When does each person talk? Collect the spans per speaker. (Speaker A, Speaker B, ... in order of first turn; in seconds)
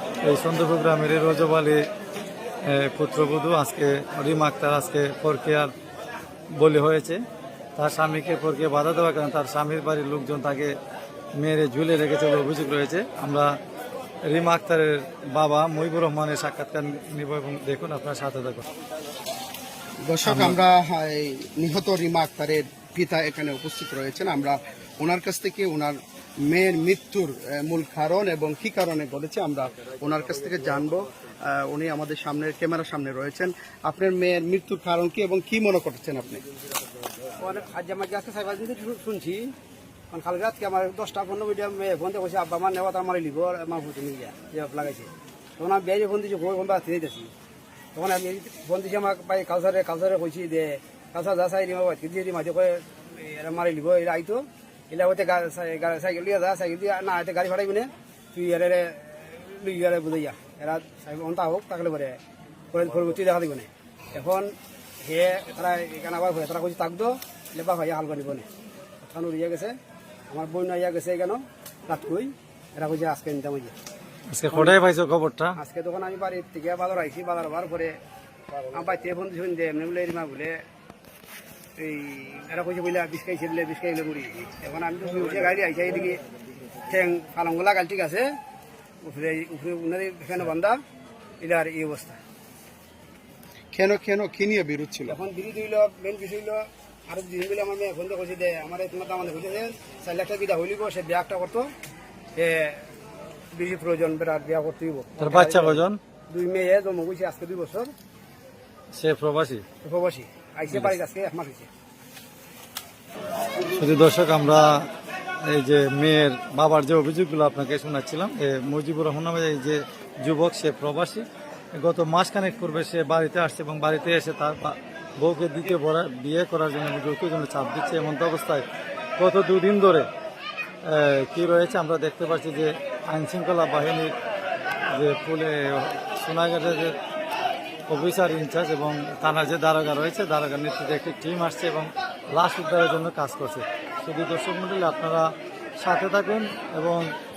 Speaker A: 0.2-1.9, 2.6-5.7, 6.5-7.2, 7.8-10.8, 11.3-13.6, 14.3-18.6, 20.2-20.6, 74.3-75.6, 105.2-106.0, 108.9-109.6, 110.7-111.0, 113.7-114.9, 115.4-128.7, 129.2-130.1, 130.8-134.1, 134.9-136.9, 137.9-147.1
Speaker B: 20.0-36.4, 93.7-95.2
Speaker C: 37.4-39.5, 40.1-47.3, 47.9-62.2, 62.7-68.5, 69.0-69.7, 70.3-73.7, 75.6-78.0, 78.7-80.6, 81.8-86.2, 86.9-88.3, 89.0-90.7, 91.4-92.2, 95.1-101.7, 102.3-102.8, 103.5-107.9, 109.8-111.7